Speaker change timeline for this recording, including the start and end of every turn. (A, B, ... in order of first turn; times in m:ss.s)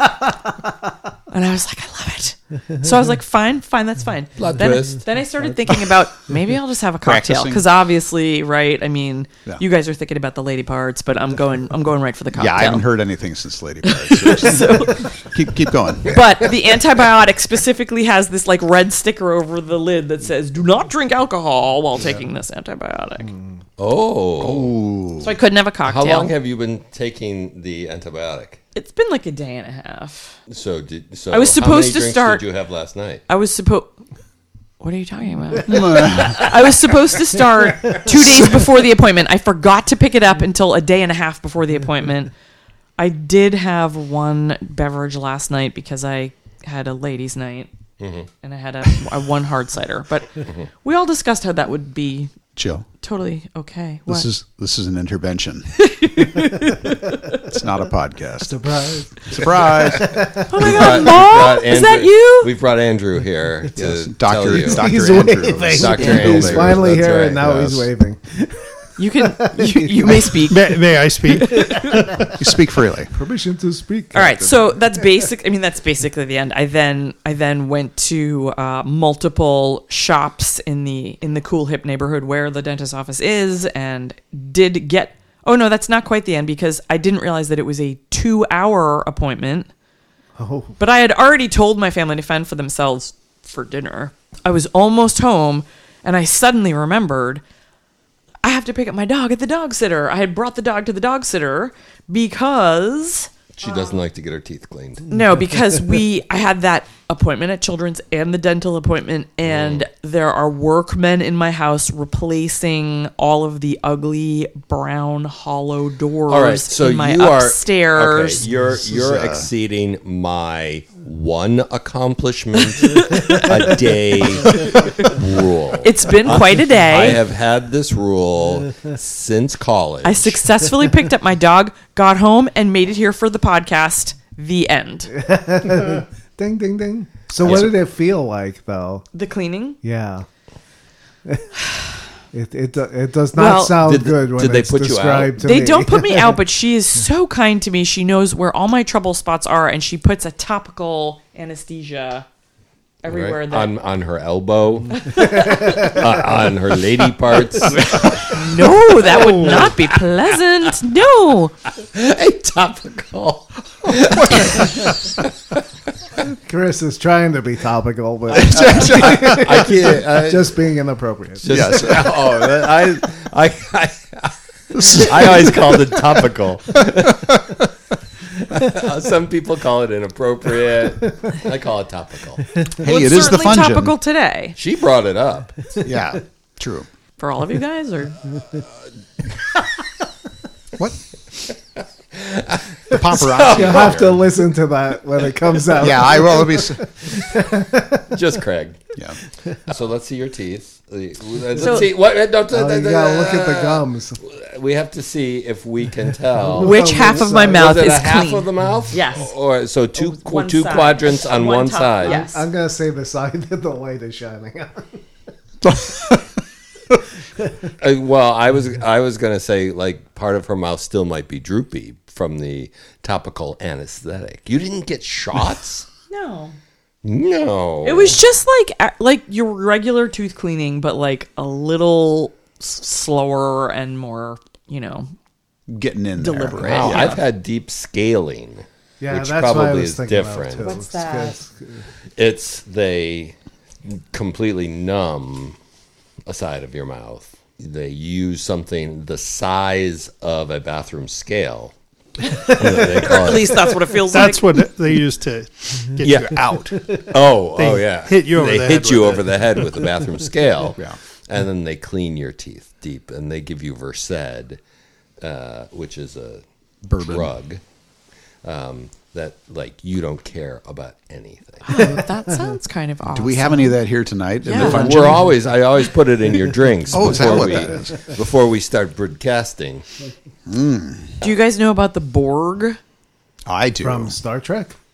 0:01.3-0:12.9 A
0:04.4-0:05.0 B
0:07.0-0:07.6 C
0:12.4-0:16.2 C
0:13.9-0:15.1 A
0:16.0-0:23.3 A
0:23.8-0:24.7 B
0:24.4-0:25.3 C
0:25.2-0:26.3 A
0:25.8-0:28.6 B
0:28.8-0:30.4 A
0:30.5-0:33.2 B
0:31.3-0:32.4 A
0:33.3-0:33.9 A
0:34.8-0:42.3 A
0:35.6-0:36.6 C
0:43.0-0:47.7 A
0:48.0-0:48.3 B
0:48.4-0:52.3 A
0:52.6-0:52.9 C
0:53.0-0:54.3 A
0:54.1-0:55.8 C
0:55.8-0:57.4 A
0:57.4-0:58.6 C
0:58.5-1:00.9 D
0:59.2-1:00.3 C
1:00.5-1:02.5 A
1:00.5-1:04.9 B
1:03.8-1:07.0 C
1:04.6-1:08.7 D
1:05.7-1:07.9 B
1:09.0-1:10.8 A
1:09.2-1:10.4 D
1:10.4-1:11.9 E
1:11.3-1:12.1 A
1:11.8-1:12.2 D
1:12.2-1:13.1 C
1:13.1-1:14.7 D
1:14.1-1:29.7 A
1:30.4-1:30.8 D
1:30.8-1:37.4 A
1:38.4-1:43.8 A
1:43.6-1:45.2 B
1:45.1-1:58.4 A
1:49.5-1:49.8 B
1:56.3-2:10.4 B
1:58.7-1:59.5 C
2:02.7-2:03.8 A
2:04.5-2:05.1 A
2:05.8-2:07.2 A
2:10.0-2:15.1 A
2:15.1-2:19.1 D
2:17.4-2:17.7 B
2:19.1-2:19.8 A
2:19.8-2:20.3 D
2:22.3-2:26.4 D
2:23.4-2:23.8 A
2:23.8-2:25.4 B
2:25.4-2:32.3 A
2:33.0-2:33.7 A
2:33.1-2:39.8 B
2:35.0-2:35.8 A
2:38.3-2:41.6 A
2:41.8-2:45.1 B
2:44.2-2:44.6 C
2:46.2-2:51.5 D
2:48.3-2:49.6 C
2:48.8-2:50.6 B
2:51.4-2:57.4 B
2:51.5-2:52.2 C
2:54.7-2:55.8 C
2:56.8-2:57.4 C
2:58.5-3:02.6 B
3:02.8-3:04.6 A
3:02.8-3:04.0 C
3:04.6-3:05.6 B
3:05.8-3:06.9 C
3:07.2-3:08.2 A
3:12.1-3:14.3 B
3:12.9-3:14.1 C
3:13.4-3:18.1 D
3:15.8-3:16.8 C
3:18.1-3:18.8 B
3:19.7-3:32.3 B
3:21.6-3:21.9 A
3:22.5-3:24.2 D
3:26.4-3:27.8 D
3:26.6-3:29.3 A
3:30.0-3:32.4 A
3:32.0-3:35.0 D
3:35.6-3:36.2 C
3:37.8-3:45.9 B
3:46.1-3:46.6 A
3:47.0-3:48.2 B
3:47.8-3:55.1 A
3:55.7-3:57.2 C
3:56.2-3:57.2 A
3:56.6-4:00.7 B
3:59.0-4:01.8 D
4:00.6-4:01.4 A
4:02.2-4:05.6 B
4:06.3-4:11.7 B
4:12.3-4:13.7 B
4:12.8-4:14.6 A
4:14.1-4:16.9 E
4:16.0-4:24.6 B
4:17.6-4:19.2 E
4:25.2-4:26.4 B
4:26.8-4:27.3 C
4:27.0-4:27.6 B
4:28.4-4:31.9 B
4:31.6-4:33.8 A
4:33.1-4:35.3 C
4:34.4-4:35.2 A
4:34.5-4:39.9 B
4:36.9-4:37.9 C
4:40.5-4:41.2 C
4:41.2-4:42.8 A
4:43.5-4:44.2 C
4:43.8-4:44.8 D